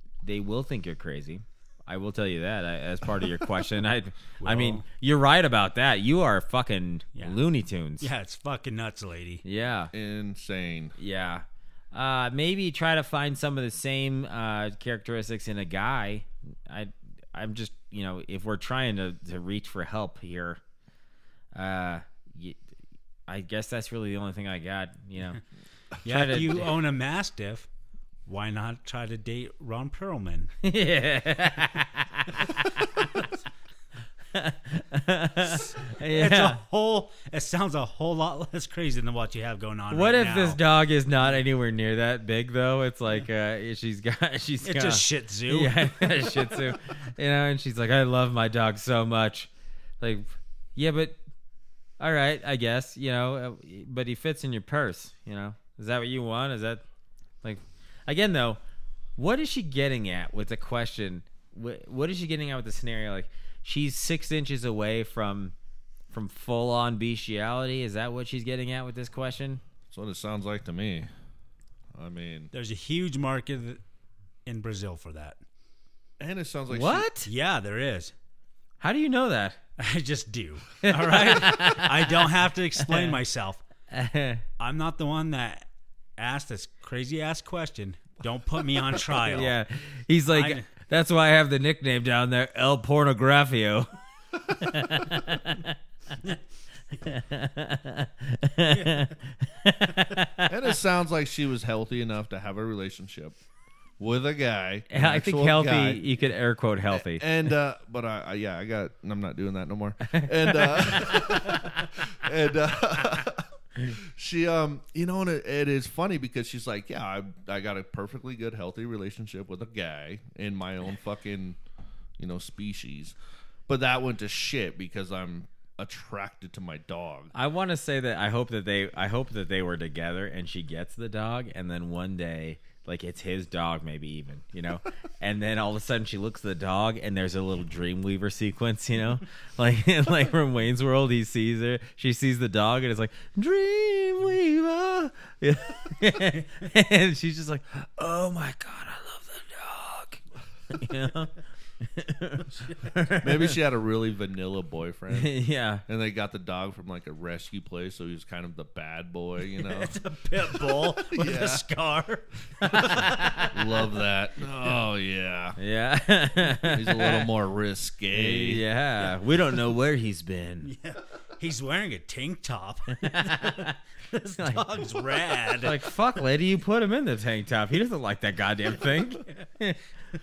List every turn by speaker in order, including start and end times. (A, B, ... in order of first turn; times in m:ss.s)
0:00.2-0:08.1 A
0:04.4-0:04.8 B
0:08.0-0:09.4 B
0:09.4-0:09.9 A
0:09.9-0:11.0 C
0:11.0-0:20.6 A
0:21.5-0:22.6 A
0:23.3-0:25.4 A
0:26.0-0:27.7 B
0:26.1-0:26.8 A
0:28.3-0:30.5 B
0:30.6-0:33.3 A
0:34.3-0:36.6 A
0:35.4-0:40.6 B
0:39.9-0:51.2 A
0:44.6-0:46.4 B
0:52.0-0:56.8 A
0:57.4-0:58.6 A
0:59.2-1:05.6 A
1:06.1-1:09.6 A
1:09.9-1:11.1 C
1:12.0-1:12.5 C
1:12.5-1:13.8 B
1:14.4-1:15.4 B
1:16.2-1:17.1 C
1:16.7-1:17.3 A
1:17.2-1:18.1 B
1:18.8-1:19.6 A
1:19.8-1:23.6 B
1:20.8-1:23.2 A
1:23.9-1:24.4 A
1:24.6-1:29.6 B
1:29.0-1:33.9 A
1:30.3-1:30.7 B
1:34.4-1:35.8 A
1:37.0-1:40.6 A
1:38.7-1:39.2 B
1:40.5-1:43.4 C
1:44.0-1:46.0 C
1:44.9-1:47.5 A
1:46.9-2:01.6 C
1:50.1-1:51.7 A
2:02.2-2:03.2 C
2:03.7-2:07.3 C
2:07.3-2:33.6 A
2:33.2-2:40.0 C
2:35.1-2:35.8 A
2:39.6-2:43.6 B
2:40.8-2:41.6 C
2:42.6-2:43.5 A
2:42.6-2:45.6 C
2:45.6-2:47.3 A
2:46.6-2:48.6 C
2:48.1-2:50.7 A
2:50.6-2:55.9 B
2:53.0-2:53.8 A
2:54.4-2:59.8 A